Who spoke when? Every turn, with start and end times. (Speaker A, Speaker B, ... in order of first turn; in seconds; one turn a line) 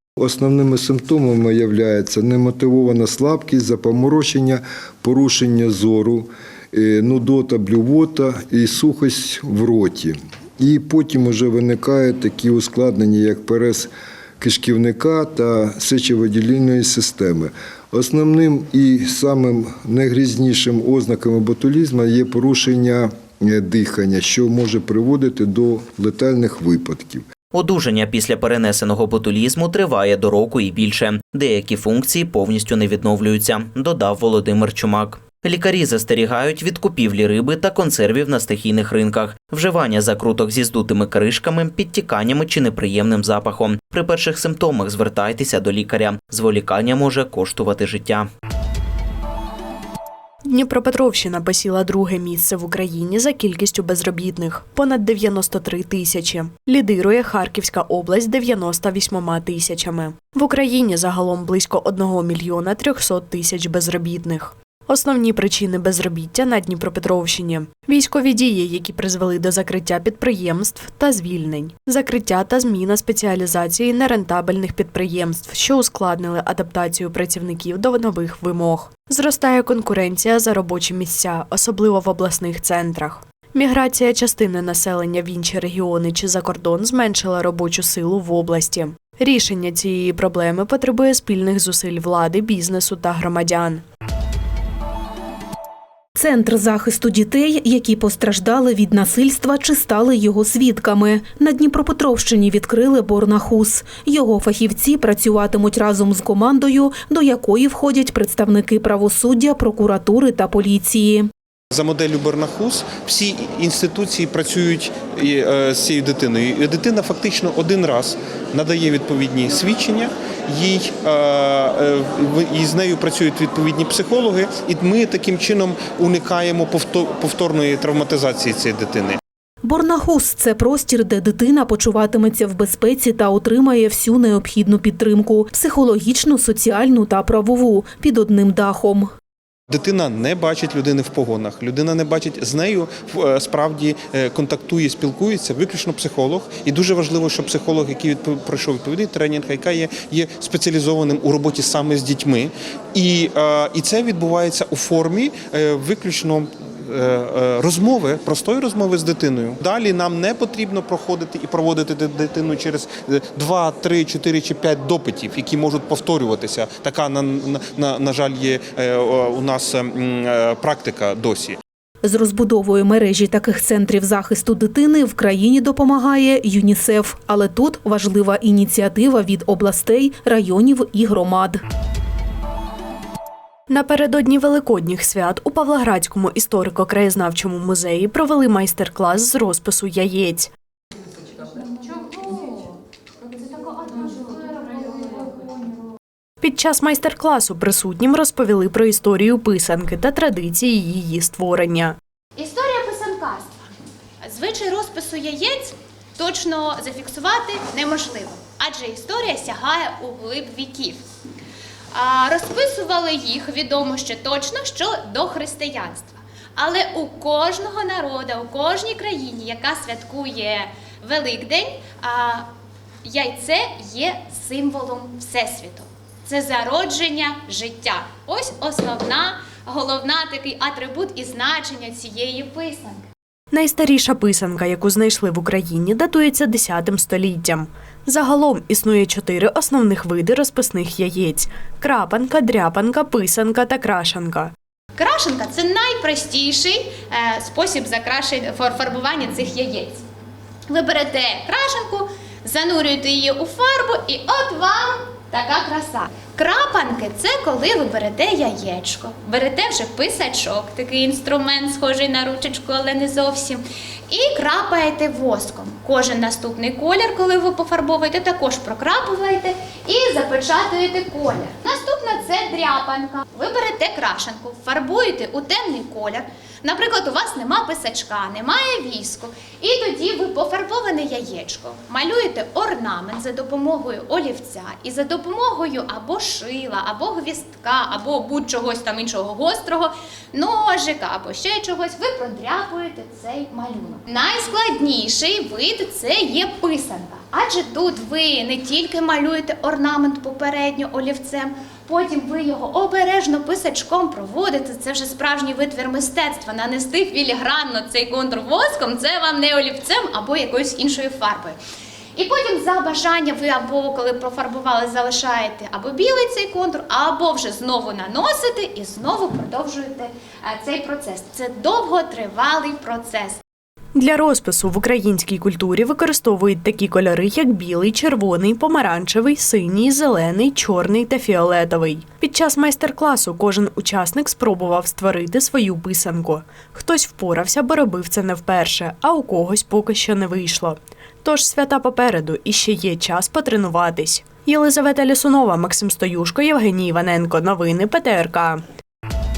Speaker A: 0.2-27.2
Speaker B: 27.5-48.2
Speaker C: 50.4-93.8
Speaker D: 96.2-111.3
Speaker E: 111.7-129.2
Speaker D: 129.6-139.1
Speaker E: 139.7-171.6
Speaker D: 172.0-181.6
Speaker C: 183.7-190.5
Speaker F: 192.1-192.5
Speaker C: 196.4-202.0
Speaker F: 202.4-203.6
Speaker F: 204.2-211.0
Speaker F: 211.9-222.5
Speaker F: 223.0-233.0
Speaker C: 233.5-244.5
Speaker F: 245.0-250.0
Speaker F: 250.7-311.6
Speaker F: 312.1-323.4
Speaker C: 323.9-348.6